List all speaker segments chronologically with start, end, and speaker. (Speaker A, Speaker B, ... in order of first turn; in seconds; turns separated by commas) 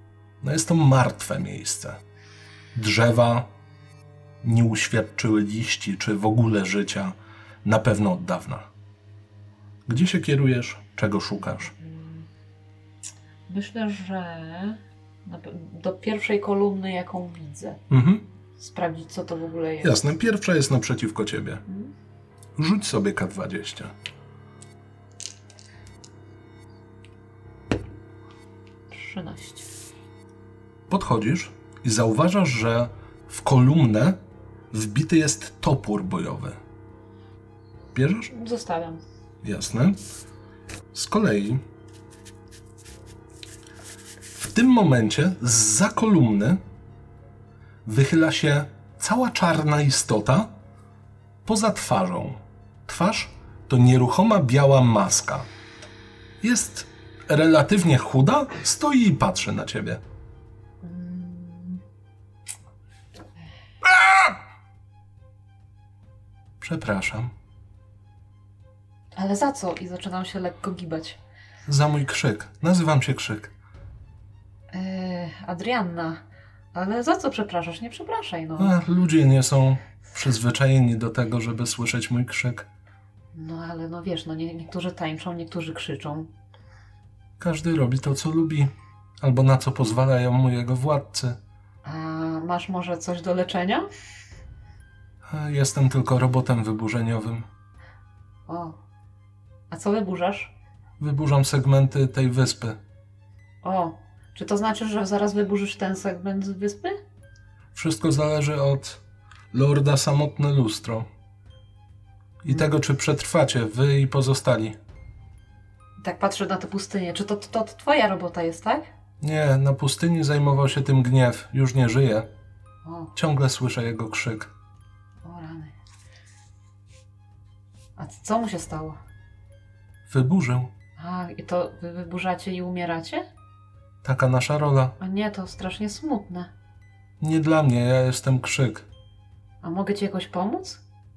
Speaker A: 0.4-2.0, Speaker A: 2.8-3.5, Speaker A: 4.4-8.7, Speaker A: 9.9-11.7, Speaker B: 11.8-12.2, Speaker B: 13.5-17.8, Speaker A: 17.9-18.2, Speaker B: 18.6-20.0, Speaker A: 19.8-21.6, Speaker B: 21.7-21.9, Speaker A: 22.6-23.9, Speaker B: 28.9-29.7, Speaker A: 30.9-34.2, Speaker A: 34.7-36.6, Speaker A: 37.9-38.3, Speaker B: 38.3-39.0, Speaker A: 39.4-40.0, Speaker A: 40.9-41.6, Speaker A: 44.3-46.6, Speaker A: 47.9-50.5, Speaker A: 51.5-55.5, Speaker A: 56.4-60.0, Speaker B: 60.8-61.8, Speaker A: 63.8-64.3, Speaker A: 66.6-67.3, Speaker B: 69.2-71.2, Speaker A: 71.7-73.5, Speaker B: 74.7-76.2, Speaker B: 76.7-78.8, Speaker A: 78.6-82.7, Speaker B: 83.3-86.3, Speaker A: 87.4-91.4, Speaker B: 91.8-93.9, Speaker A: 95.3-97.5, Speaker B: 98.5-98.8, Speaker B: 99.7-100.5, Speaker A: 101.0-102.8, Speaker B: 103.6-107.0, Speaker A: 107.7-109.0, Speaker A: 109.5-111.1, Speaker A: 112.4-114.8, Speaker B: 116.0-118.9, Speaker A: 119.2-122.3, Speaker B: 122.8-123.1, Speaker A: 123.2-124.5, Speaker B: 125.2-125.7, Speaker B: 128.0-129.0, Speaker A: 130.1-130.7, Speaker B: 131.0-133.3, Speaker A: 134.0-134.9, Speaker B: 135.0-136.5, Speaker A: 137.2-138.8, Speaker B: 139.6-140.8